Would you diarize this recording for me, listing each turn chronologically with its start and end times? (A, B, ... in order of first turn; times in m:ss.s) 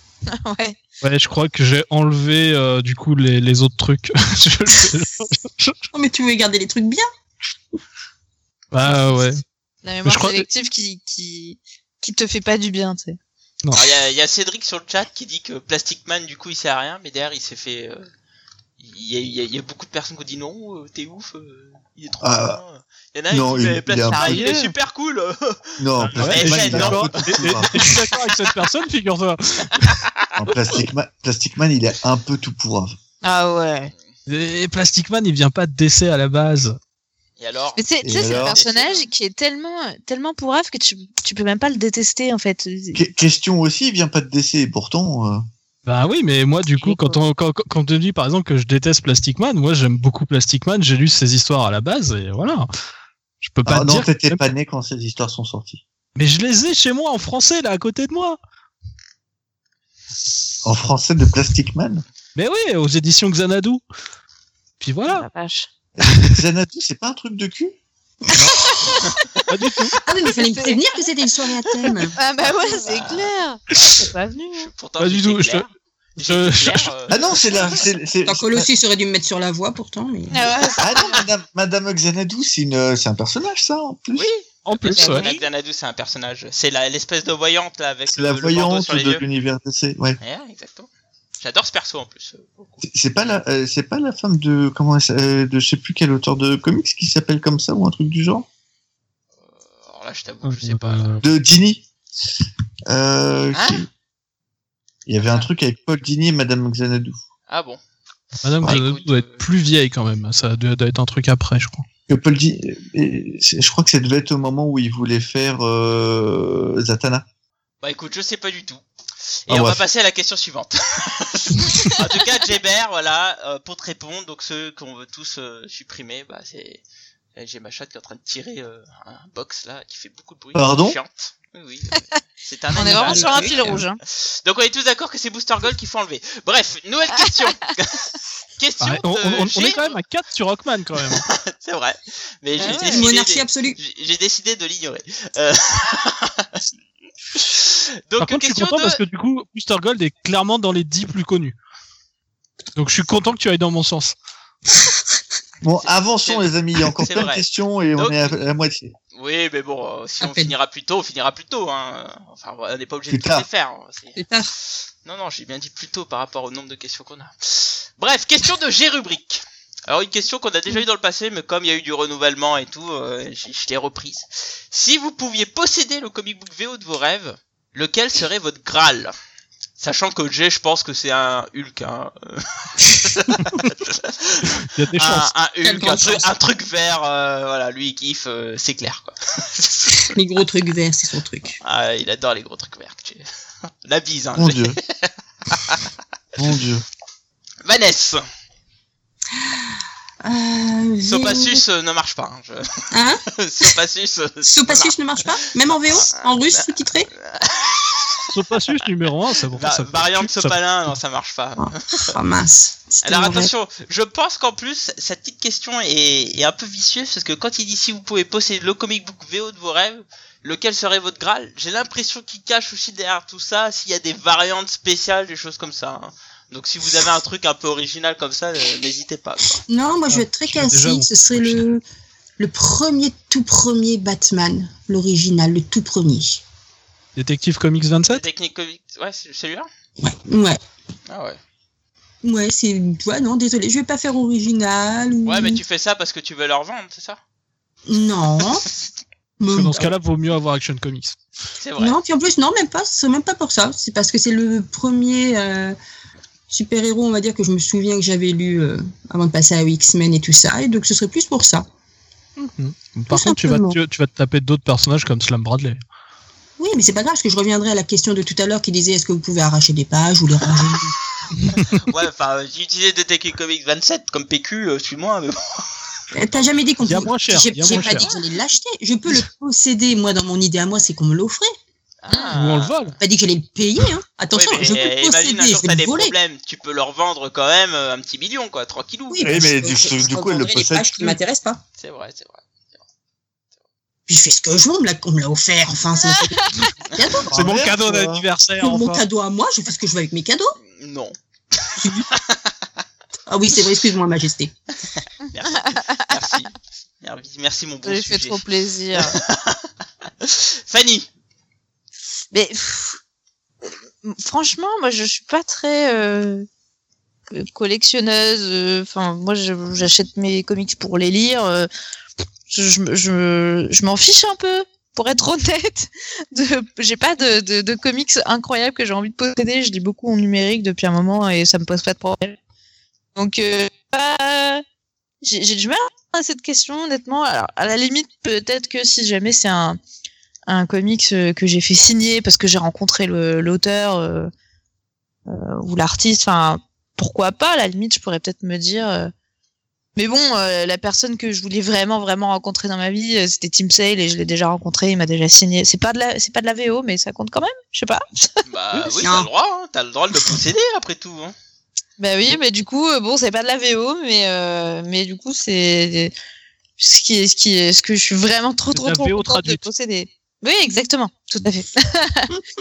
0:00.3-0:00.8 A
0:01.0-0:05.8 B
0:05.9-0:07.1 C
0:08.7-0:09.4 B
0:09.8-0:13.2 A
0:10.0-0:10.4 B
0:13.7-0:18.1 D
0:18.8-0:28.3 D
0:22.2-0:22.6 E
0:23.3-0:24.5 E
0:24.1-0:24.6 A
0:24.2-0:24.7 B
0:25.8-0:27.8 E
0:26.0-0:30.0 B
0:29.8-0:30.3 D
0:30.4-0:32.9 E
0:33.2-0:33.9 A
0:34.3-0:36.8 B
0:37.4-0:39.0 D
0:37.8-0:43.0 A
0:38.0-0:38.6 E
0:42.9-0:45.4 E
0:45.8-0:52.7 B
0:46.8-0:47.2 A
0:53.4-0:54.5 B
0:53.6-0:55.8 E
0:56.2-0:58.4 B
1:00.6-1:02.0 E
1:02.4-1:03.8 B
1:04.8-1:05.3 B
1:05.1-1:05.7 A
1:06.0-1:07.7 E
1:06.1-1:06.4 B
1:08.4-1:09.1 A
1:09.5-1:10.0 B
1:10.0-1:12.1 C
1:10.3-1:11.0 A
1:11.8-1:14.7 A
1:12.5-1:17.8 D
1:15.0-1:15.7 B
1:16.2-1:16.9 B
1:17.1-1:18.7 E
1:18.3-1:20.3 C
1:20.3-1:21.2 A
1:20.3-1:21.0 D
1:20.8-1:24.3 E
1:24.1-1:29.2 D
1:24.6-1:25.3 B
1:24.9-1:25.4 A
1:28.1-1:30.2 E
1:30.2-1:32.8 D
1:32.8-1:38.4 E
1:39.4-1:41.2 D
1:40.4-1:41.2 B
1:41.2-1:41.8 E
1:42.9-1:43.9 E
1:43.5-1:43.8 D
1:45.0-1:47.2 E
1:47.5-1:47.8 D
1:48.3-1:49.4 D
1:48.4-1:51.8 B
1:52.1-1:57.2 E
1:57.8-1:58.8 D
1:59.4-2:06.8 D
1:59.5-1:59.8 E
2:07.4-2:20.0 D
2:10.6-2:11.0 E
2:12.7-2:13.8 C
2:12.7-2:14.0 A
2:18.8-2:21.2 B
2:21.1-2:26.6 D
2:22.6-2:23.8 C
2:22.6-2:23.1 A
2:27.3-2:29.0 D
2:28.2-2:31.6 B
2:32.7-2:34.1 B
2:35.6-2:38.9 E
2:35.7-2:37.4 D
2:38.0-2:38.3 D
2:39.1-2:44.2 D
2:40.2-2:40.5 C
2:43.1-2:43.4 E
2:44.2-2:44.5 C
2:45.0-2:59.1 D
2:59.8-3:10.1 D
3:04.6-3:05.3 B
3:05.6-3:06.3 C
3:10.1-3:11.6 C
3:11.6-3:13.2 D
3:13.8-3:15.9 D
3:14.3-3:14.8 E
3:16.4-3:16.8 E
3:17.6-3:18.3 D
3:20.2-3:21.6 C
3:21.0-3:28.8 D
3:22.9-3:23.7 C
3:24.4-3:27.1 C
3:28.3-3:30.6 B
3:29.5-3:32.2 D
3:31.6-3:33.5 C
3:33.0-3:49.6 D
3:49.7-3:51.8 C
3:50.1-3:51.6 B
3:52.4-3:56.4 C
3:57.2-3:58.2 B
3:58.1-3:59.7 D
4:00.0-4:00.6 C
4:01.1-4:01.4 D
4:02.2-4:05.6 C
4:05.2-4:07.2 D
4:07.8-4:08.6 C
4:09.4-4:09.9 C
4:09.5-4:11.2 B
4:11.6-4:12.0 D
4:11.8-4:15.8 C
4:16.5-4:21.6 C
4:22.4-4:25.8 B
4:23.1-4:23.8 C
4:26.6-4:31.4 C
4:31.5-4:31.8 B
4:31.6-4:35.7 D
4:36.1-4:41.5 C
4:36.8-4:38.1 B
4:42.0-4:42.9 D
4:42.1-4:42.3 A
4:42.3-4:43.0 B
4:43.0-4:46.1 C
4:44.3-4:49.4 D
4:49.1-4:51.6 C
4:49.2-4:51.2 E
4:51.8-4:52.4 D
4:54.1-4:57.4 C
4:56.4-4:56.7 A
4:57.3-4:58.3 E
4:57.3-4:59.0 B
4:58.6-5:00.6 C
5:00.7-5:02.5 D
5:01.8-5:02.1 C
5:03.3-5:04.5 C
5:04.9-5:08.4 D
5:05.5-5:06.3 A
5:07.8-5:09.2 A
5:08.9-5:09.7 D
5:10.2-5:11.1 D
5:12.3-5:13.0 A
5:14.0-5:16.5 A
5:17.3-5:21.7 A
5:22.5-5:32.4 A
5:33.2-5:34.6 A
5:35.2-5:39.8 A
5:40.5-5:44.3 A
5:45.3-5:49.1 A
5:50.0-5:58.4 A
5:58.4-6:01.3 D
5:59.0-5:59.3 C
6:02.0-6:06.1 A
6:06.8-6:12.4 A
6:08.7-6:09.6 B